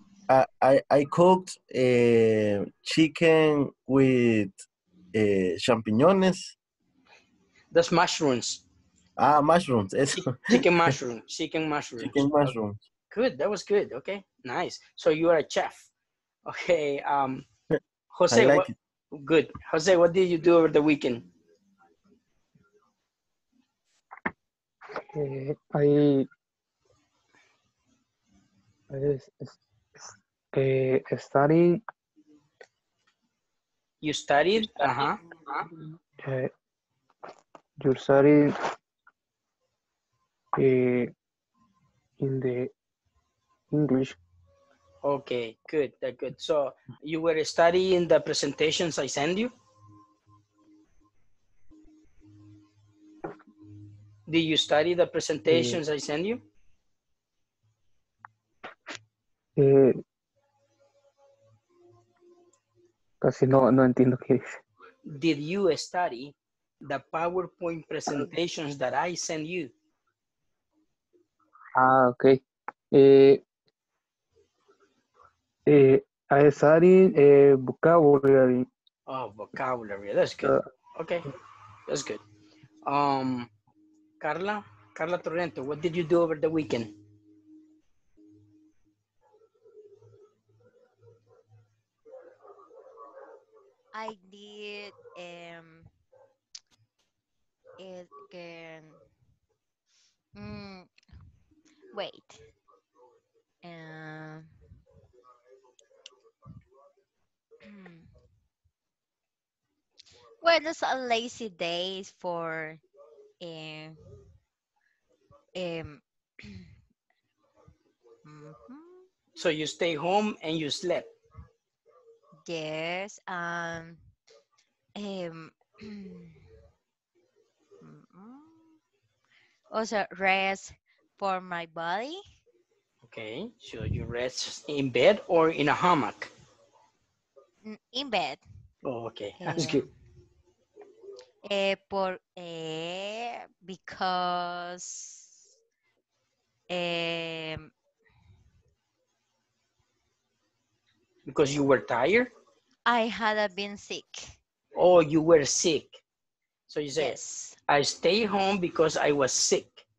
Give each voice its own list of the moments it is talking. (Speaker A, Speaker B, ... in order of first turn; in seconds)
Speaker A: 0.3-4.6, 5.1-6.5, 9.2-10.7, 12.0-12.8, 18.3-18.7
Speaker B: 7.7-8.6, 10.2-12.5, 13.1-15.9, 16.5-17.5, 18.1-21.3, 34.0-35.6, 45.0-49.5, 54.3-56.4, 65.1-69.7, 79.1-81.3, 81.9-82.2, 82.9-83.5, 84.2-86.9, 119.4-121.1, 133.0-136.3, 138.8-139.9, 151.3-152.3, 154.8-156.0, 156.7-159.8
Speaker C: 25.1-26.3, 28.9-31.8, 36.2-36.5, 37.8-38.5, 40.5-41.1, 42.2-42.7, 43.7-44.2, 55.5-55.8, 59.6-60.0, 63.2-64.6, 71.8-72.4, 72.9-73.4, 75.7-78.7
Speaker D: 93.9-95.9, 97.8-99.0, 100.3-100.9, 101.9-102.4, 103.6-104.5, 107.6-108.1, 110.4-112.8, 113.4-114.0, 115.5-116.7, 118.2-119.1, 122.5-124.0, 125.0-126.4, 127.8-128.7, 129.7-132.2, 137.6-138.4, 139.4-139.8, 141.4-145.3, 146.7-147.7, 152.8-154.4, 157.0-157.6